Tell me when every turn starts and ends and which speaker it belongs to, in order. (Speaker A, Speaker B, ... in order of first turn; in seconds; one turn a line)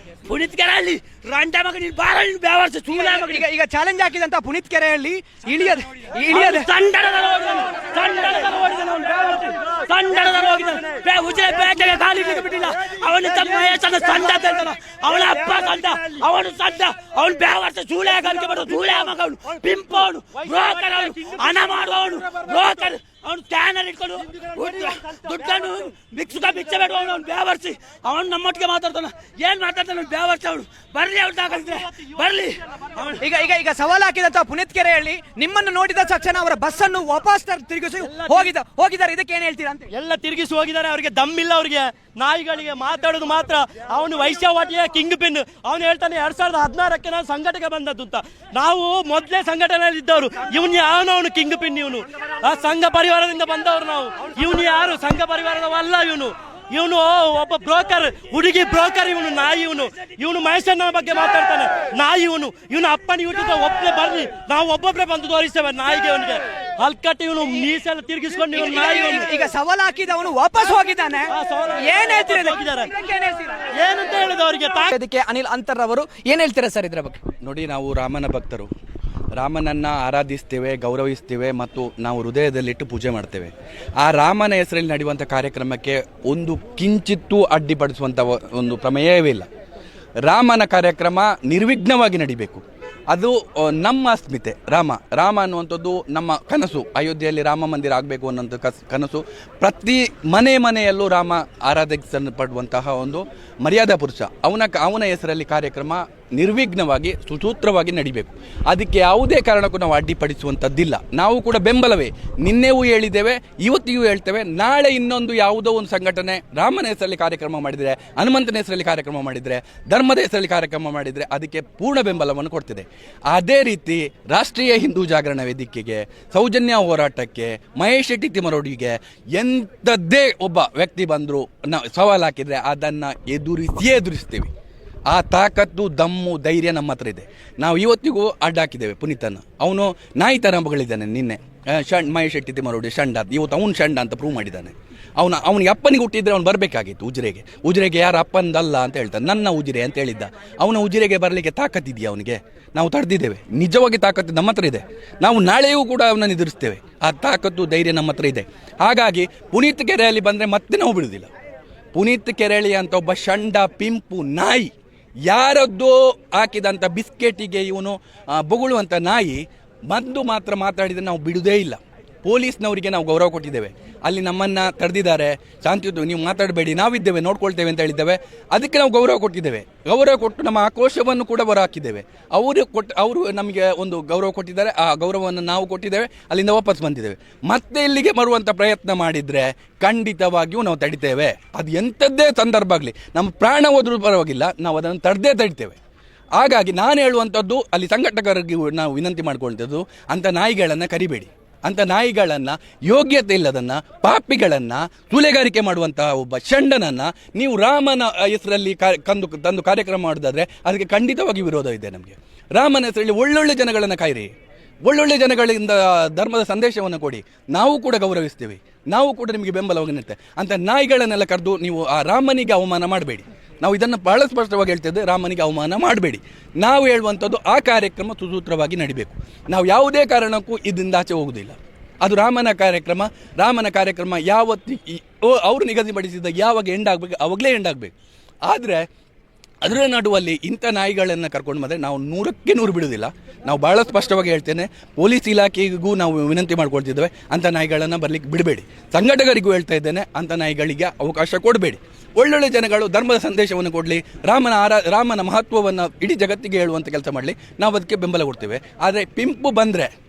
Speaker A: 0.2-3.4
Speaker B: 2.9-6.7
Speaker A: 6.3-33.2
Speaker B: 33.2-39.9
Speaker C: 39.9-69.2
Speaker A: 41.8-42.1
Speaker B: 68.5-73.7
Speaker C: 71.3-72.9
Speaker C: 73.8-74.9
Speaker B: 74.9-77.2
Speaker D: 77.4-78.7
Speaker D: 79.3-89.5
Speaker D: 90.2-134.5
Speaker D: 135.1-161.3
Speaker D: 161.9-164.7
Speaker D: 165.3-195.8
Speaker D: 196.3-214.3
Speaker D: 214.8-237.9
Speaker D: 238.4-238.8
Speaker D: 239.6-259.9